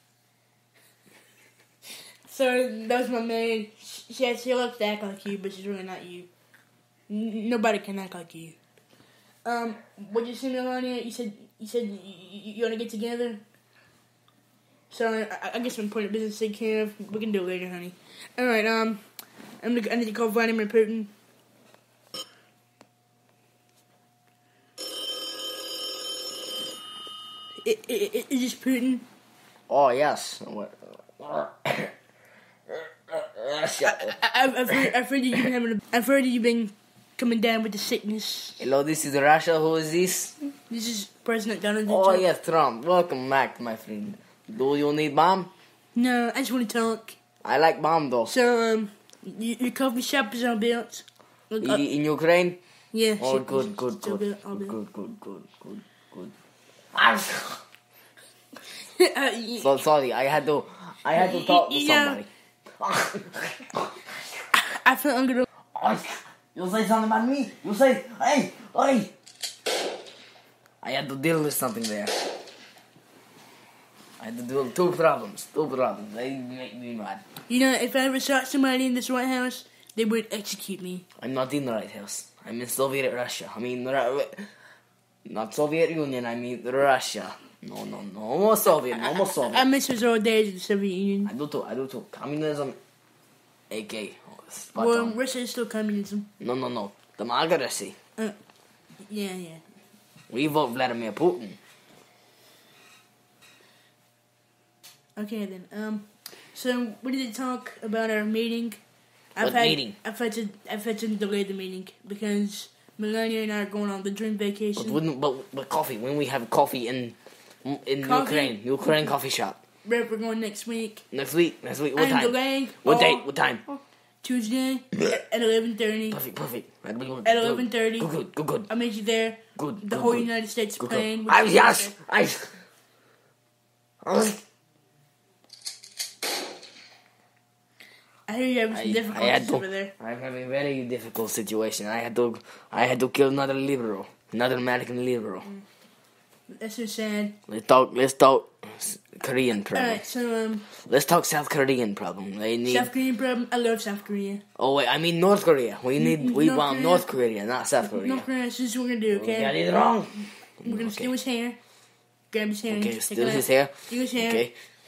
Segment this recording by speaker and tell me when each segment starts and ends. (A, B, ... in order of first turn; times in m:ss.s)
0:02.3-0:06.3 A
0:07.1-0:08.5 A
0:09.4-0:13.4 A
0:14.9-0:19.0 A
0:19.6-0:21.1 A
0:27.6-0:29.0 A
0:29.7-0:31.9 B
0:32.7-0:34.1 B
0:33.8-0:38.7 A
0:38.6-0:40.3 B
0:40.7-0:42.2 A
0:41.9-0:45.5 B
0:45.9-0:47.2 A
0:47.4-0:48.3 B
0:48.2-0:51.8 A
0:51.6-0:52.6 B
0:52.9-0:54.7 A
0:53.2-0:56.3 B
0:56.9-0:57.6 B
0:59.0-0:59.7 A
0:59.6-1:02.3 B
1:01.1-1:02.2 A
1:02.8-1:04.1 B
1:04.5-1:05.4 A
1:05.7-1:09.1 B
1:10.8-1:12.1 B
1:14.2-1:17.2 B
1:17.5-1:21.0 A
1:21.2-1:24.5 B
1:25.2-1:29.6 B
1:29.1-1:31.3 A
1:31.2-1:32.8 B
1:33.7-1:35.1 B
1:34.8-1:36.3 A
1:36.4-1:38.0 B
1:39.1-1:39.6 A
1:40.3-1:41.6 B
1:45.2-1:48.8 A
1:49.4-1:55.0 A
1:49.4-1:50.0 B
1:54.8-1:59.6 B
1:58.0-1:58.5 A
1:59.8-2:01.0 A
2:01.1-2:03.6 B
2:01.9-2:03.3 A
2:04.2-2:06.2 A
2:06.1-2:08.7 B
2:07.2-2:08.1 A
2:08.7-2:11.9 A
2:09.6-2:10.3 B
2:10.8-2:12.5 B
2:14.0-2:14.4 B
2:18.3-2:19.9 A
2:18.7-2:25.5 B
2:26.5-2:27.4 A
2:27.5-2:30.0 B
2:29.7-2:30.7 A
2:30.8-2:32.9 B
2:32.6-2:34.4 A
2:34.6-2:38.3 B
2:36.0-2:37.1 A
2:37.8-2:39.6 A
2:39.1-2:41.1 B
2:40.6-2:41.6 A
2:42.3-2:44.5 A
2:42.7-2:44.5 B